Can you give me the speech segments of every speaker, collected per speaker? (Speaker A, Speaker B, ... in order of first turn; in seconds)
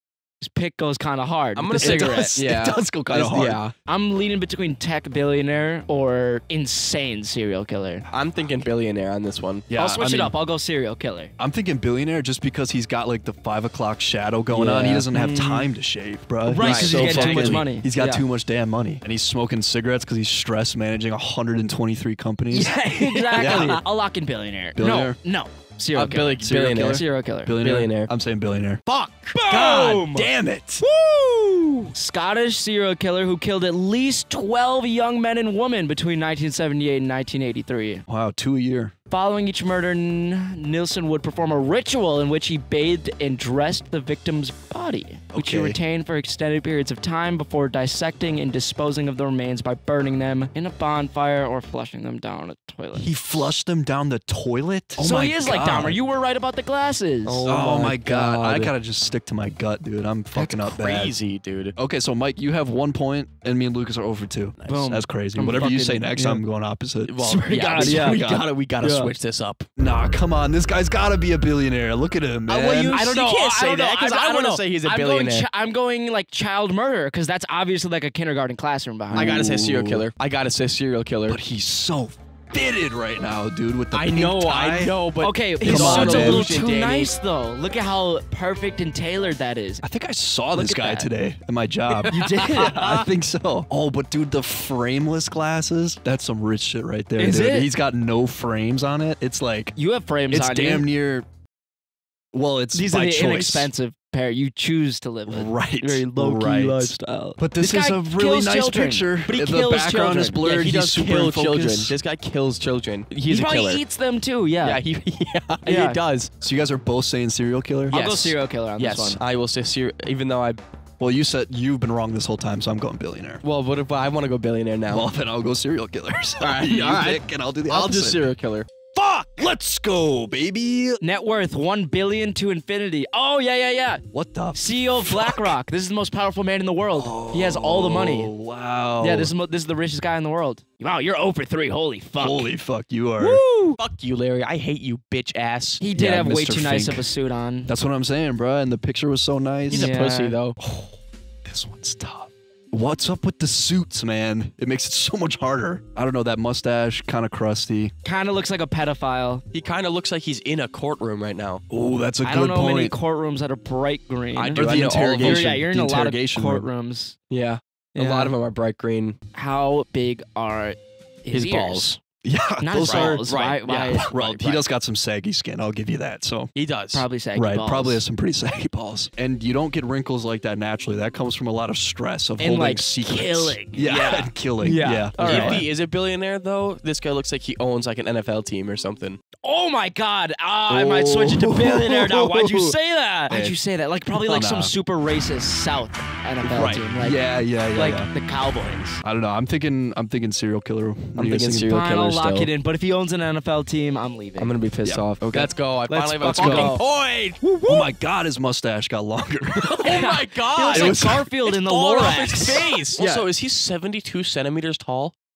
Speaker A: 0.4-2.4, 3.9-8.1, 9.7-11.3, 15.1-15.7, 16.5-18.2, 22.5-27.6, 29.3-30.3, 30.8-38.0, 39.1-53.5, 55.0-57.5, 64.7-66.4, 67.2-68.3, 68.8-69.1, 72.5-79.5, 85.2-89.8, 90.5-91.1, 92.1-92.8, 97.2-97.7, 99.8-100.9, 102.7-110.5, 113.3-114.8, 115.7-116.0, 117.9-119.2, 131.0-134.0, 134.5-138.3, 139.0-142.5, 143.2-143.8, 145.8-147.7, 149.7-150.4, 158.0-159.4, 162.2-164.7, 165.2-167.2, 167.9-168.3, 169.3-171.9, 172.6-174.1, 176.9-178.0, 182.4-185.7, 189.4-199.0, 201.7-204.5, 205.9-206.9, 207.4-207.9, 209.8-212.8
Speaker B: 1.6-3.7, 8.1-9.7, 14.5-15.1, 16.6-17.7, 23.1-23.8, 25.9-27.0, 27.6-28.1, 28.9-29.3, 57.2-58.7, 60.3-61.8, 67.1-69.7, 72.7-75.5, 79.2-81.4, 83.9-87.1, 92.0-92.9, 110.4-113.8, 114.6-116.3, 117.9-120.6, 123.4-125.1, 126.4-128.7, 143.8-145.8, 149.7-150.6, 159.5-161.6, 164.3-165.6, 167.3-169.2, 171.3-172.0, 172.8-174.7, 176.6-177.1, 183.8-184.3, 185.2-189.2, 201.2-202.5, 204.4-207.4, 209.6-215.2
Speaker C: 1.8-3.6, 9.7-10.3, 11.4-22.8, 23.4-23.8, 24.8-25.2, 26.4-28.8, 29.5-30.8, 38.1-38.9, 45.3-45.8, 52.9-56.0, 57.5-61.1, 61.8-67.2, 67.7-68.5, 69.8-73.0, 79.1-80.1, 81.3-85.0, 85.6-86.6, 89.8-99.8, 100.3-101.3, 102.3-103.7, 105.3-112.0, 116.4-117.9, 121.0-123.4, 124.9-128.2, 128.9-131.0, 134.1-135.6, 137.0-139.3, 142.2-143.4, 145.9-147.1, 147.7-149.9, 150.6-157.9, 161.7-163.0, 164.6-166.7, 172.2-173.2, 173.9-176.5, 177.3-185.7, 190.7-192.8, 193.3-193.6, 194.3-194.7, 196.4-198.1, 199.0-201.7, 204.8-206.8, 207.7-209.9, 210.7-211.3, 213.0-213.3